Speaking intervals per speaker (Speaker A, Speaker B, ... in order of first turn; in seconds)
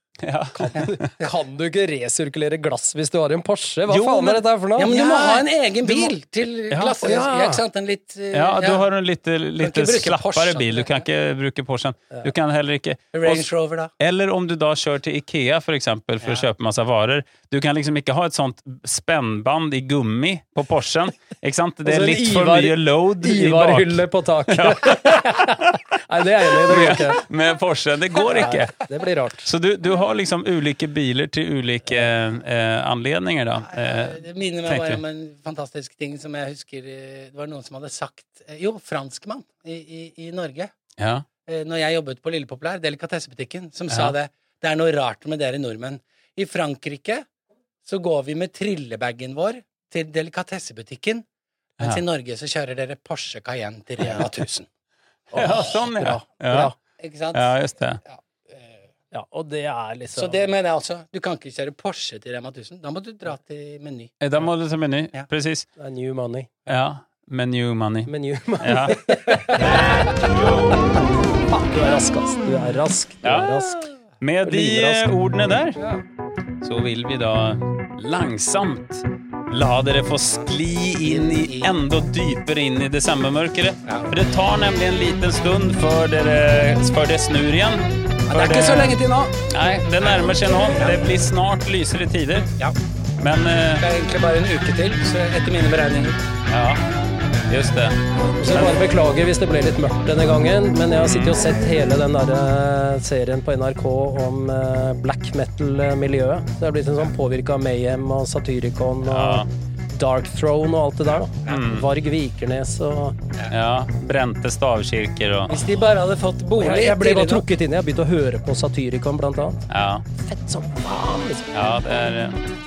Speaker A: 0.2-1.1, 3.9-5.0, 6.7-7.0, 8.3-13.5, 14.0-25.8, 26.7-28.8, 29.4-35.0, 41.0-41.3, 43.9-44.1, 55.3-56.7, 57.3-58.0, 64.2-65.7, 66.7-69.0, 69.6-71.0, 73.2-73.6, 74.2-75.8, 76.6-92.5, 93.2-93.9, 96.5-96.9, 97.5-98.0, 101.0-101.4, 109.1-109.5, 111.5-111.9, 113.5-115.7, 119.7-120.0, 121.5-122.4
Speaker B: 0.5-6.1, 7.0-7.6, 21.9-27.2, 28.3-29.5, 55.3-56.8, 59.1-60.4, 65.8-66.7, 68.1-73.9, 74.4-75.1, 98.4-113.2, 116.6-121.5
Speaker C: 4.8-8.8, 9.6-11.0, 13.1-13.9, 33.7-40.7, 41.5-47.3, 47.9-51.2, 51.8-54.7, 57.0-57.5, 58.0-58.9, 60.2-64.2, 69.3-70.0, 75.8-76.0, 81.0-81.8, 83.9-84.1, 88.3-89.4, 90.7-91.0, 93.8-96.2, 115.5-117.4